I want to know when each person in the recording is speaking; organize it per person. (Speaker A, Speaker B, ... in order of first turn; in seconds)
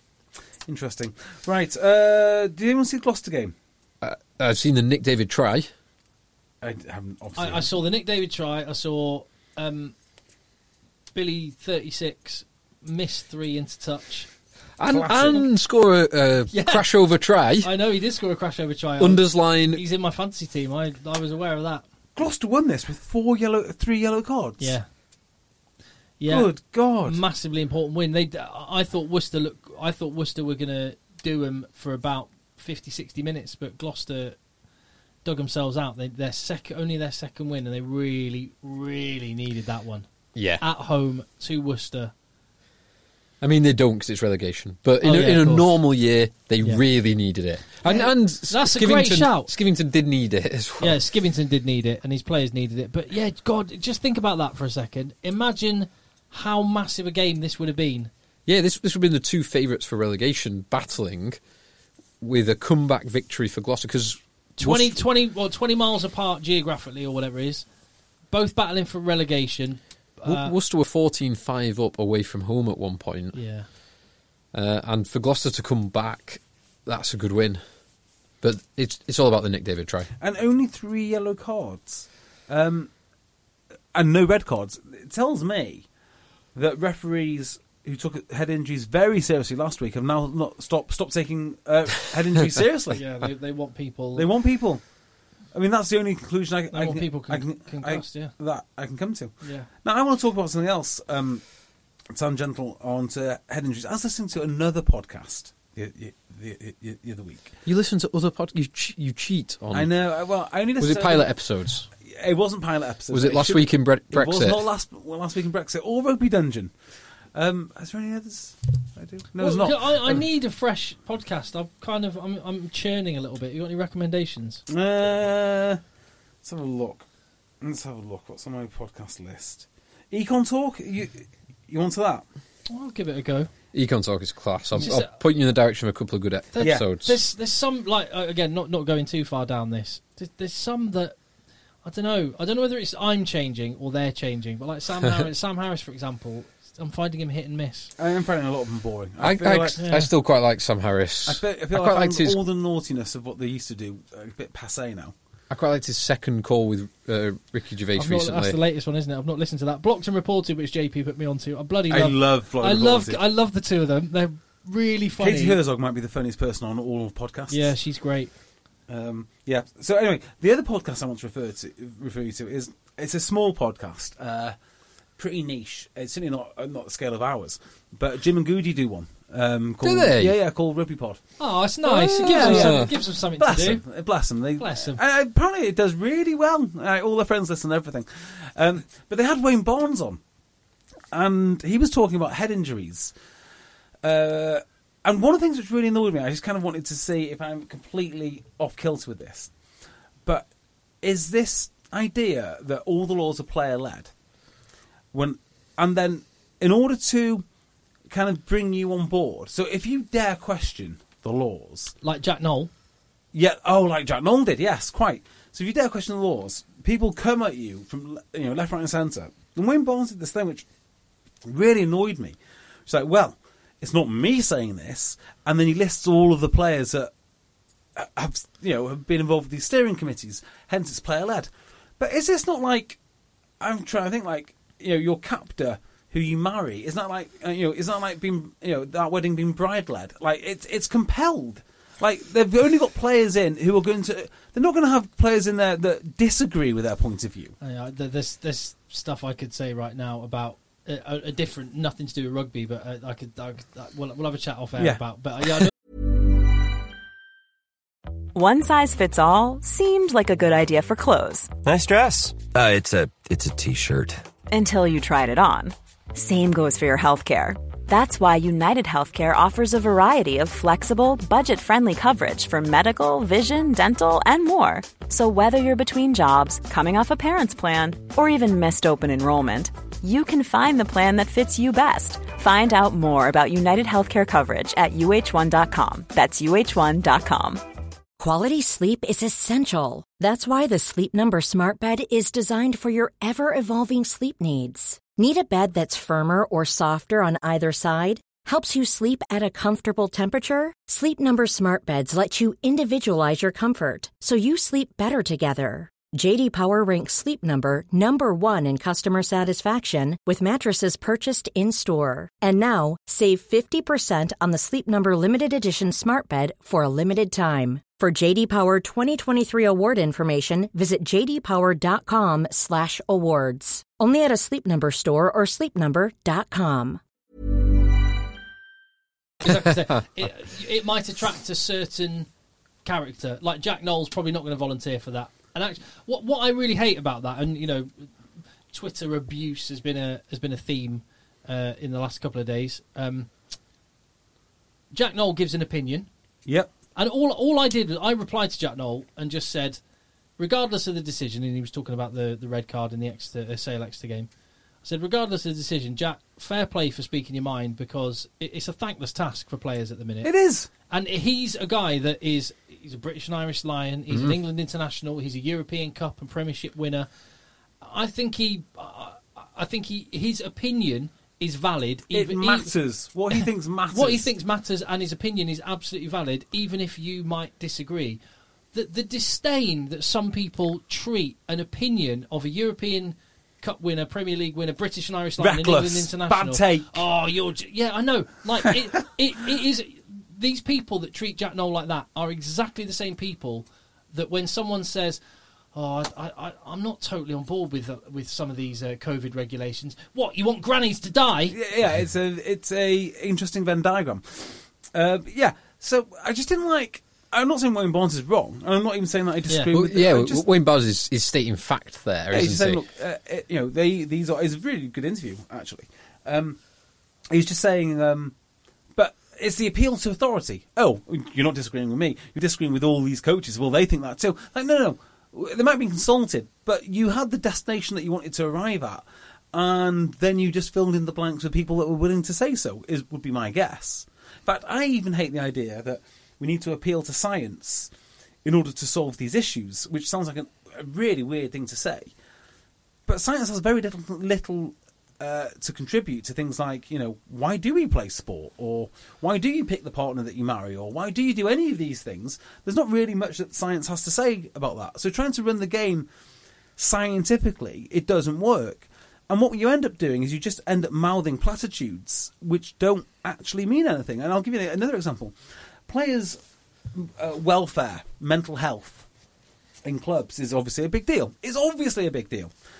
Speaker A: 0.7-3.5, 6.6-7.7, 14.9-15.4, 22.1-24.8, 26.3-27.2, 80.2-82.9, 83.9-85.8, 86.5-93.0, 94.1-94.8, 95.5-101.4, 102.1-107.5, 109.7-111.3, 112.0-116.7, 117.3-120.2, 124.7-125.8, 126.4-127.0, 127.6-132.2, 136.6-136.8, 148.0-149.8, 151.2-155.1, 161.9-163.2, 165.2-167.8, 168.9-174.5, 175.2-181.2, 182.2-190.2, 191.1-193.1, 194.0-199.5, 201.0-204.1, 205.1-207.4, 208.1-211.9, 213.3-220.6, 221.4-222.3, 222.9-227.1, 227.9-233.0, 233.6-247.5, 360.2-360.7, 372.1-374.3, 385.4-387.0, 401.5-410.5, 412.3-416.6, 417.3-418.3, 418.9-437.9, 438.4-442.1, 443.1-456.1, 456.8-465.3, 465.9-466.4, 466.9-469.1, 469.8-472.5
Speaker B: 4.0-5.7, 14.8-17.7, 19.0-19.8, 40.3-40.6, 43.4-51.0, 58.5-61.4, 62.2-65.0, 70.2-73.4, 74.5-77.6, 78.4-80.1, 107.7-109.9, 110.8-111.9, 113.1-114.6, 133.7-137.2, 149.2-152.4, 155.5-158.6, 179.8-180.3, 181.8-182.9, 364.1-364.4, 409.7-412.8
Speaker C: 7.4-9.9, 11.1-14.3, 16.5-16.8, 17.6-21.9, 24.6-24.9, 26.2-26.5, 27.0-34.4, 35.2-40.1, 40.6-42.1, 45.0-45.7, 47.8-49.5, 50.8-58.1, 64.6-67.7, 68.3-70.5, 73.3-73.7, 92.9-94.3, 96.7-98.3, 99.4-99.7, 119.4-124.6, 132.7-133.5, 134.8-135.1, 136.5-141.2, 141.8-147.9, 149.8-150.1, 157.9-165.6, 167.5-168.3, 181.4-183.8, 184.6-185.0, 212.0-212.7, 247.6-255.7, 329.4-332.3, 332.8-338.1, 338.7-343.3, 344.9-346.1, 346.9-349.8, 350.4-354.3, 354.8-360.3, 360.9-367.1, 367.8-372.7, 373.4-378.2, 378.7-395.2, 395.7-401.6
Speaker D: 258.3-261.5, 264.5-287.6
Speaker E: 261.6-264.2
Speaker F: 288.2-327.0